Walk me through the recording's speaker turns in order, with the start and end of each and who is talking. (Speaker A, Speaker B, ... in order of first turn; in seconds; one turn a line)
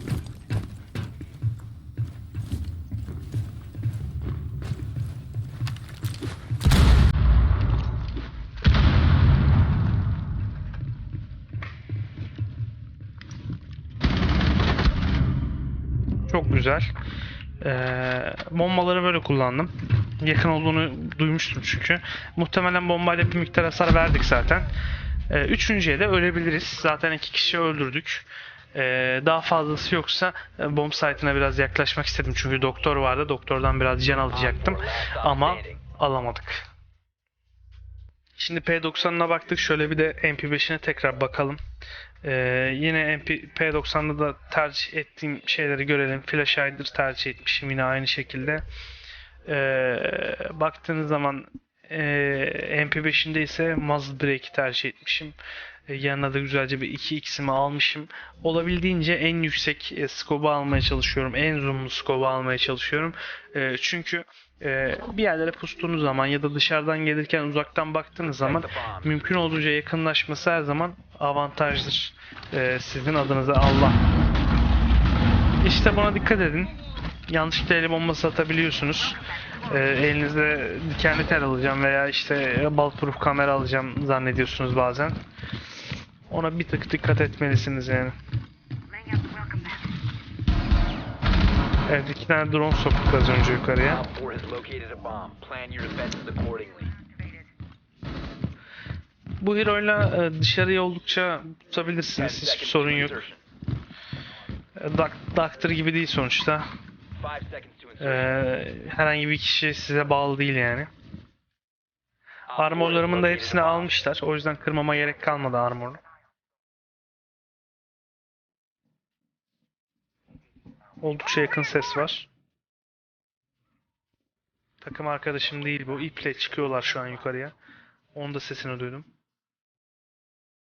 Speaker A: 16.3-16.9
Speaker A: 17.6-24.7
Speaker A: 25.3-36.6
Speaker B: 34.3-35.8
Speaker A: 38.4-41.6
Speaker A: 42.2-48.6
Speaker A: 49.5-55.4
Speaker A: 55.9-74.0
Speaker B: 68.4-69.1
Speaker A: 75.6-76.7
Speaker A: 77.3-85.2
Speaker A: 86.3-88.1
Speaker A: 91.9-94.0
Speaker B: 93.9-96.9
Speaker A: 99.4-103.2
Speaker B: 102.2-103.4
Speaker A: 104.8-106.7
Speaker B: 107.2-108.3
Speaker A: 108.0-110.9
Speaker B: 112.5-113.9
Speaker A: 112.5-116.0
Speaker A: 121.0-122.3
Speaker A: 124.8-127.5
Speaker A: 128.2-129.1